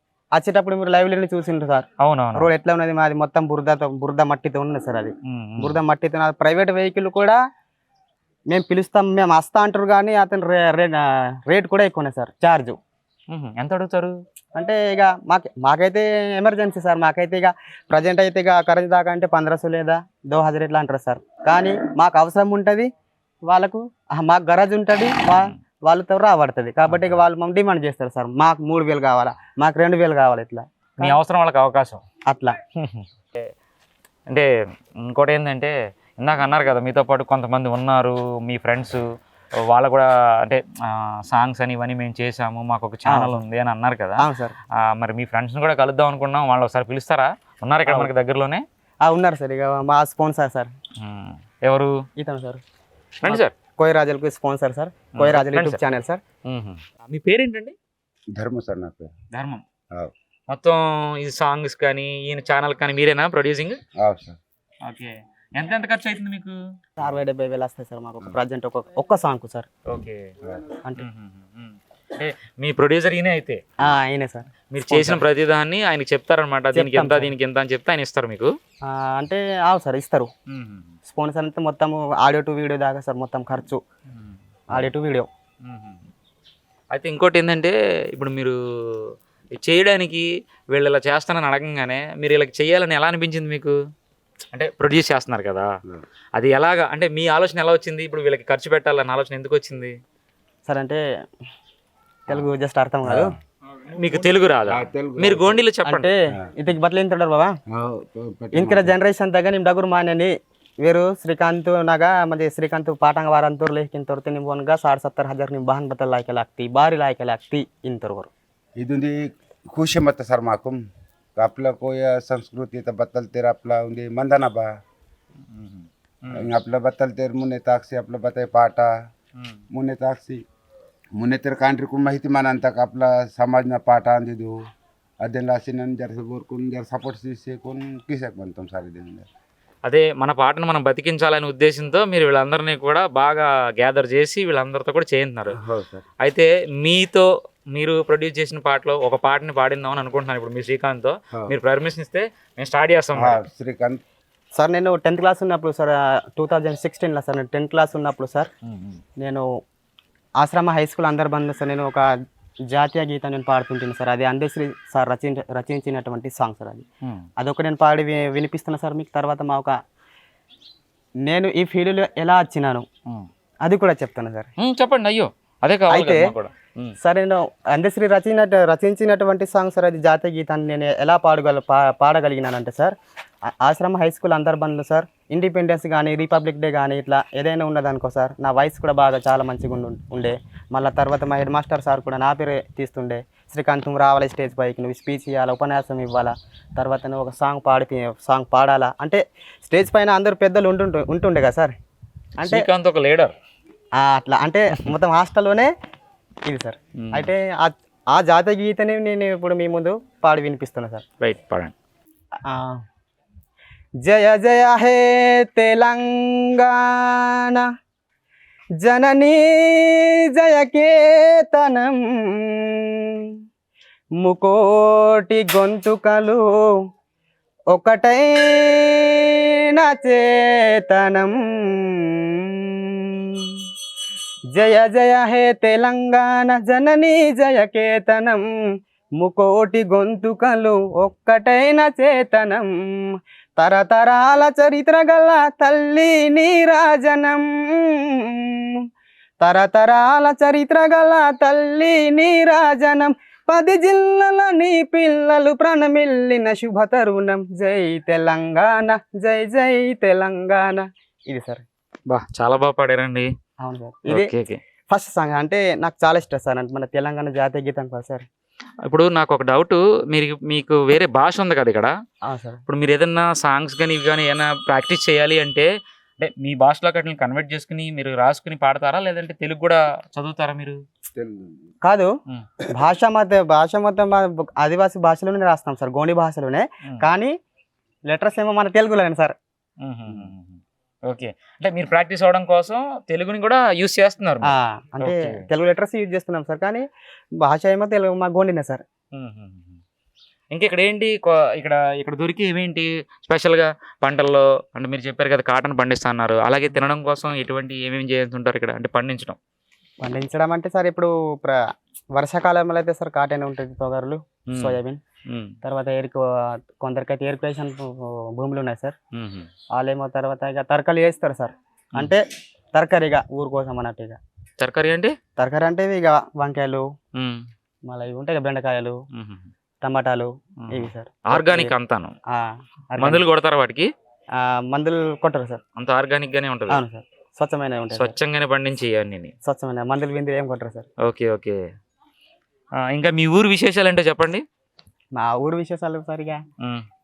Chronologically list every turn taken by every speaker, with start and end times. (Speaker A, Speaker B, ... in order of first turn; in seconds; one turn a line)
Speaker A: 0.3-7.4
Speaker B: 2.0-2.5
Speaker B: 5.2-5.8
Speaker A: 8.5-12.8
Speaker B: 13.3-14.2
Speaker A: 14.6-22.9
Speaker A: 23.5-31.2
Speaker B: 26.9-27.2
Speaker B: 31.0-32.0
Speaker A: 32.2-32.6
Speaker B: 32.7-33.5
Speaker B: 34.3-39.0
Speaker B: 39.6-48.6
Speaker A: 43.1-43.4
Speaker A: 44.2-44.5
Speaker A: 49.0-50.7
Speaker B: 51.0-52.0
Speaker A: 52.2-52.6
Speaker B: 53.2-53.5
Speaker A: 53.2-56.2
Speaker B: 55.1-55.8
Speaker B: 56.5-57.7
Speaker C: 58.3-59.1
Speaker B: 59.3-59.6
Speaker B: 60.5-63.8
Speaker C: 64.0-64.4
Speaker B: 64.8-66.6
Speaker A: 67.0-69.7
Speaker B: 69.9-70.3
Speaker B: 71.0-73.6
Speaker A: 73.8-75.2
Speaker B: 74.7-78.5
Speaker A: 76.7-77.3
Speaker A: 78.8-80.3
Speaker B: 80.5-81.0
Speaker A: 81.0-83.8
Speaker B: 84.2-84.8
Speaker A: 84.7-85.3
Speaker B: 85.6-86.0
Speaker B: 86.9-93.8
Speaker B: 94.5-95.7
Speaker B: 96.3-99.9
Speaker A: 100.6-101.0
Speaker A: 102.3-103.3
Speaker C: 103.0-103.3
Speaker B: 103.9-106.1
Speaker C: 104.7-105.6
Speaker A: 105.8-107.5
Speaker C: 107.7-108.9
Speaker A: 108.5-118.3
Speaker C: 118.8-120.8
Speaker C: 121.4-124.7
Speaker B: 125.5-126.5
Speaker C: 126.3-128.9
Speaker B: 129.4-129.6
Speaker C: 129.7-130.4
Speaker C: 131.2-134.6
Speaker C: 135.2-139.3
Speaker B: 139.8-145.6
Speaker C: 145.6-146.0
Speaker B: 146.2-153.4
Speaker C: 153.2-154.0
Speaker A: 154.5-158.5
Speaker B: 158.7-159.0
Speaker A: 159.2-159.5
Speaker A: 160.4-162.1
Speaker A: 162.7-166.8
Speaker A: 167.4-169.8
Speaker A: 171.2-172.8
Speaker A: 173.6-174.5
Speaker B: 174.6-176.9
Speaker A: 175.9-176.3
Speaker A: 177.0-201.7
Speaker A: 202.4-202.7
Speaker B: 202.4-203.3
Speaker A: 204.0-205.7
Speaker A: 206.4-211.0
Speaker B: 207.0-207.3
Speaker B: 211.2-211.7
Speaker A: 212.4-212.8
Speaker A: 214.0-217.7
Speaker A: 218.8-223.4
Speaker A: 224.2-226.7
Speaker A: 227.7-233.7
Speaker A: 234.5-238.6
Speaker A: 239.2-248.8
Speaker A: 249.4-261.6
Speaker B: 262.1-263.3
Speaker A: 263.6-264.3
Speaker B: 264.1-264.6
Speaker A: 264.9-268.3
Speaker B: 268.8-271.9
Speaker A: 272.2-272.6
Speaker B: 272.6-280.8
Speaker C: 281.1-281.4
Speaker A: 281.8-282.1
Speaker A: 282.7-287.3
Speaker A: 288.1-289.4
Speaker B: 289.8-295.4
Speaker A: 294.4-296.8
Speaker A: 297.4-298.8
Speaker B: 299.1-299.8
Speaker B: 300.5-309.4
Speaker A: 310.0-315.0
Speaker B: 314.5-315.5
Speaker A: 315.6-318.9
Speaker B: 319.1-319.5
Speaker A: 319.7-324.2
Speaker B: 324.6-325.1
Speaker A: 325.4-326.8
Speaker B: 327.2-327.4
Speaker A: 327.9-329.0
Speaker B: 329.1-329.5
Speaker A: 329.8-331.7
Speaker B: 330.6-332.1
Speaker A: 332.3-333.2
Speaker B: 333.0-333.9
Speaker A: 334.3-335.6
Speaker B: 335.8-336.8
Speaker A: 336.7-338.1
Speaker B: 337.9-339.3
Speaker A: 339.4-340.9
Speaker B: 341.0-341.6
Speaker B: 342.8-344.4
Speaker A: 345.1-346.4